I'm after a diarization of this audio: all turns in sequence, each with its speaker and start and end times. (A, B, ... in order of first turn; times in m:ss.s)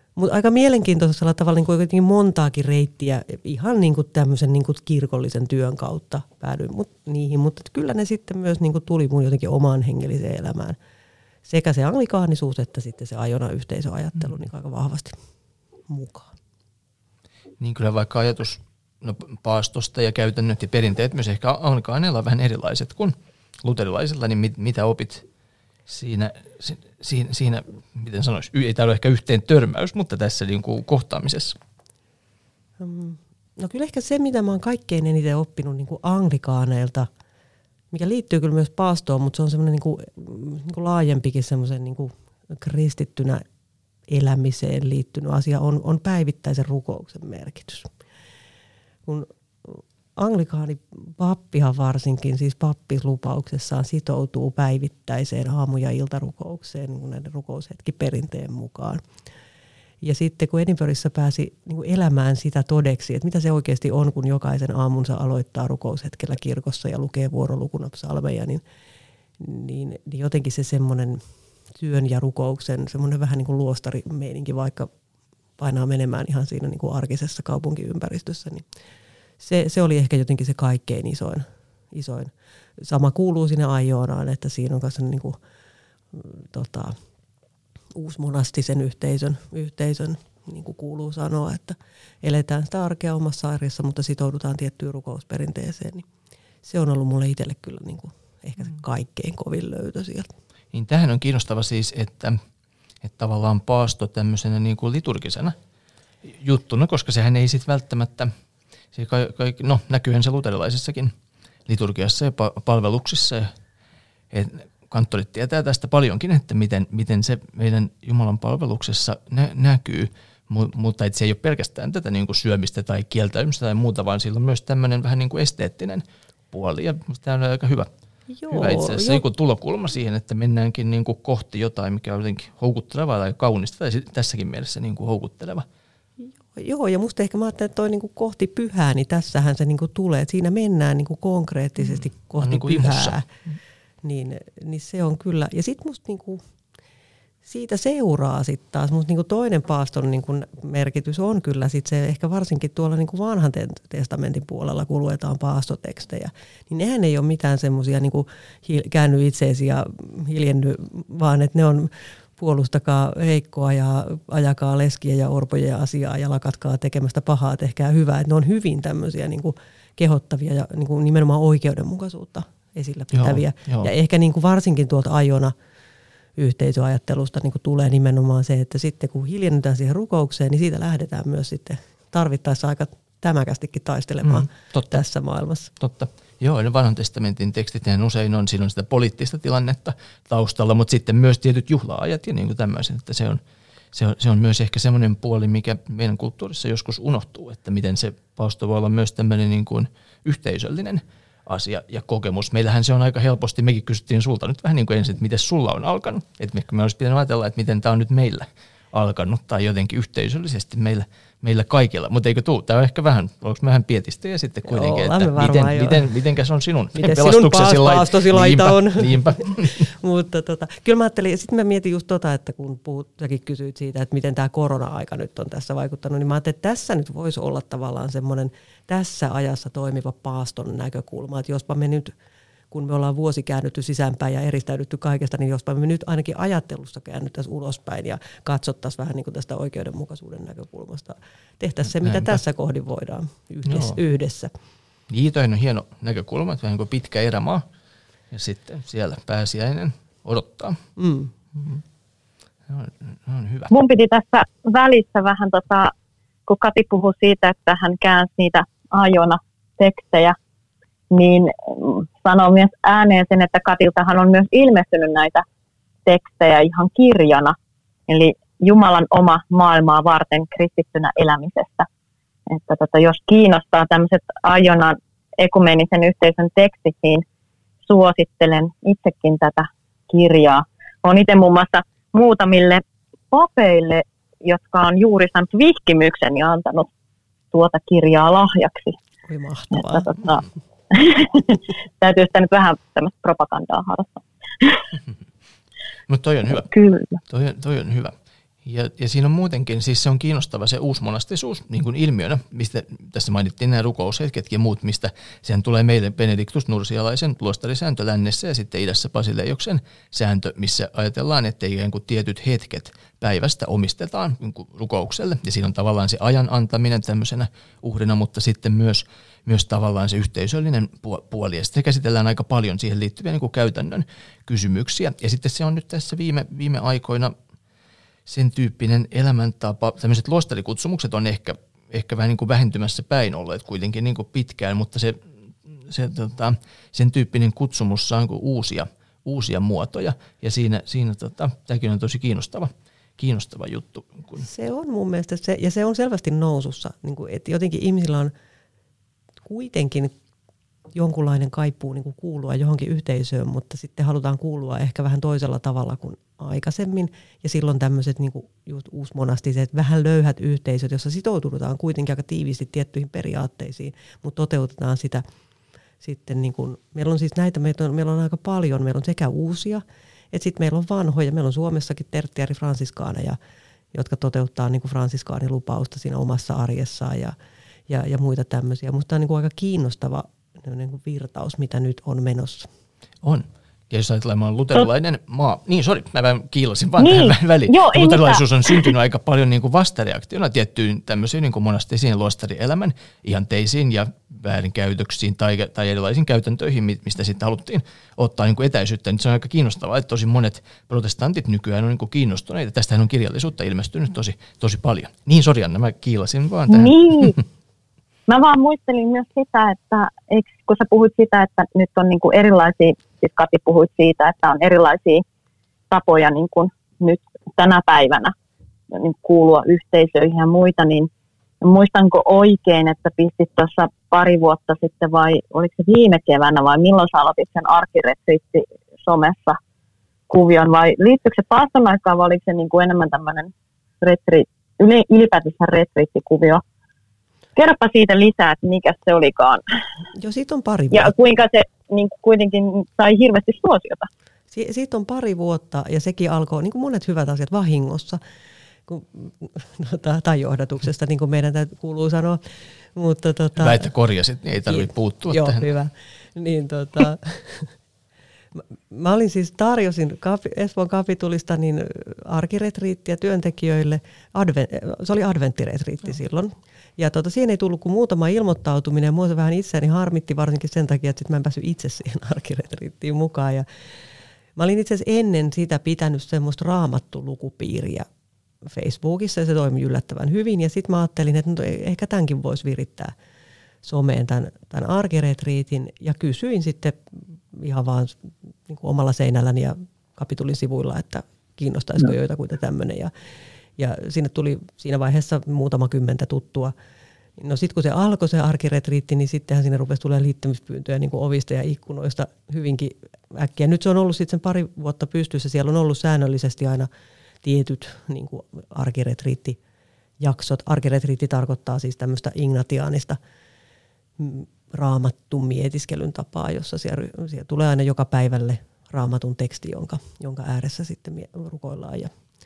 0:00.2-0:10.8 A
0:11.4-0:15.2 A
0:15.9-0:16.3 A
0:17.6-0:25.2 B
0:25.9-0:31.6 B
0:32.8-0:37.1 A
0:37.9-0:43.4 A
0:44.1-0:47.9 A
0:49.0-0:59.0 A
1:00.0-1:08.6 A
1:09.4-1:11.2 A
1:11.7-1:14.9 A
1:15.6-1:18.6 A
1:19.4-1:25.4 A
1:26.1-1:26.9 A
1:27.9-1:36.1 A
1:36.6-1:40.3 A
1:40.7-1:42.4 B
1:43.0-1:45.6 B
1:46.2-1:48.3 B
1:48.9-1:51.1 B
1:51.7-1:53.5 B
1:54.3-2:07.9 B
2:08.3-2:09.2 A
2:08.5-2:15.6 B
2:16.2-2:23.3 A
2:21.9-2:23.2 B
2:24.0-2:26.4 A
2:27.4-2:55.5 A
2:53.1-2:53.9 B
2:56.4-3:05.7 A
3:04.2-3:05.0 B
3:05.8-3:13.4 B
3:13.9-3:39.9 B
3:34.6-3:36.1 A
3:36.9-3:52.1 A
3:52.7-4:04.5 A
4:02.0-4:02.4 B
4:03.7-4:04.0 B
4:05.1-4:07.6 B
4:08.3-4:10.8 B
4:11.0-4:11.3 A
4:11.6-4:11.8 B
4:12.7-4:13.7 B
4:13.7-4:15.9 C
4:16.5-4:20.4 C
4:21.1-4:25.4 C
4:26.0-4:27.6 C
4:28.1-4:31.9 C
4:32.5-4:37.2 C
4:37.8-4:46.9 C
4:47.5-4:49.0 C
4:49.2-4:50.1 A
4:49.7-4:54.8 C
4:56.1-4:56.7 B
4:56.5-4:57.2 C
4:57.2-4:58.1 B
4:58.6-5:27.3 B
5:28.3-5:44.5 B
5:44.4-5:48.3 A
5:49.4-5:50.1 A
5:50.9-6:05.2 A
6:06.0-6:13.4 A
6:13.9-6:17.3 A
6:17.9-6:22.7 A
6:23.2-6:47.4 B
6:27.0-6:28.9 C
6:46.7-6:47.4 C
6:48.3-6:55.2 C
6:55.9-6:58.3 C
6:58.9-7:01.1 C
7:01.6-7:09.6 C
7:10.3-7:16.6 C
7:17.6-7:19.6 C
7:20.2-7:21.1 A
7:20.9-7:24.1 C
7:24.5-7:28.2 A
7:28.9-7:33.9 A
7:33.6-7:35.6 B
7:34.7-7:37.7 A
7:38.5-7:53.6 A
7:54.6-7:58.0 A
7:58.6-8:03.1 A
8:03.8-8:13.1 A
8:13.8-8:16.7 A
8:17.4-8:26.9 A
8:27.4-8:29.6 A
8:30.2-8:33.2 A
8:34.2-8:42.1 A